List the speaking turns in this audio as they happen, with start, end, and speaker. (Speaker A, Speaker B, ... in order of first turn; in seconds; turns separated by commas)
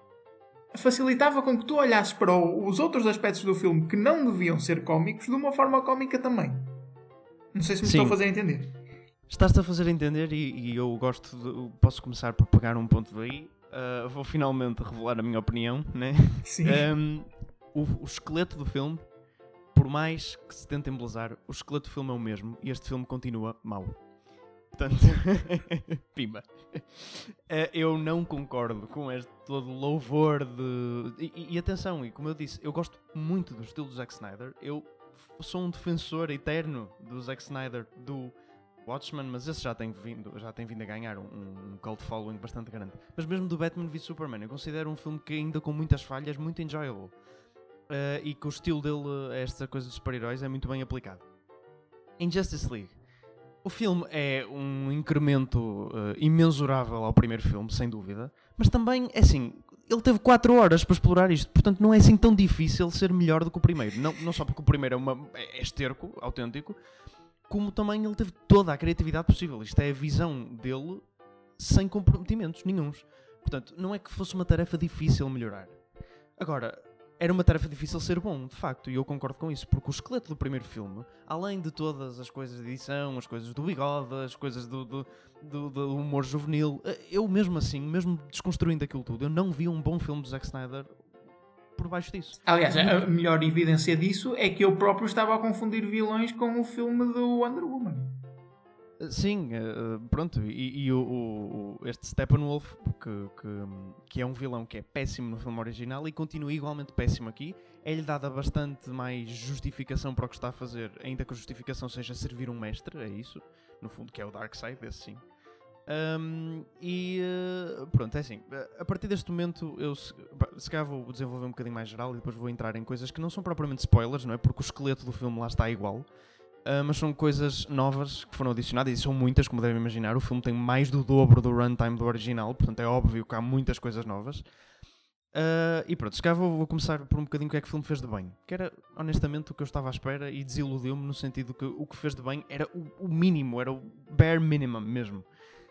Speaker A: 0.7-6.7, Speaker A: 7.5-8.8, Speaker B: 7.8-8.2, Speaker B: 9.3-19.0, Speaker A: 16.4-16.9, Speaker B: 19.7-24.0, Speaker B: 24.7-47.1, Speaker B: 47.9-51.2, Speaker B: 52.2-52.9, Speaker B: 53.6-66.8, Speaker B: 67.5-71.0, Speaker B: 71.6-75.8, Speaker B: 76.4-90.9, Speaker B: 91.8-93.0, Speaker A: 92.5-98.2, Speaker B: 99.0-115.2, Speaker B: 115.9-126.0, Speaker B: 126.7-134.4, Speaker B: 135.3-145.2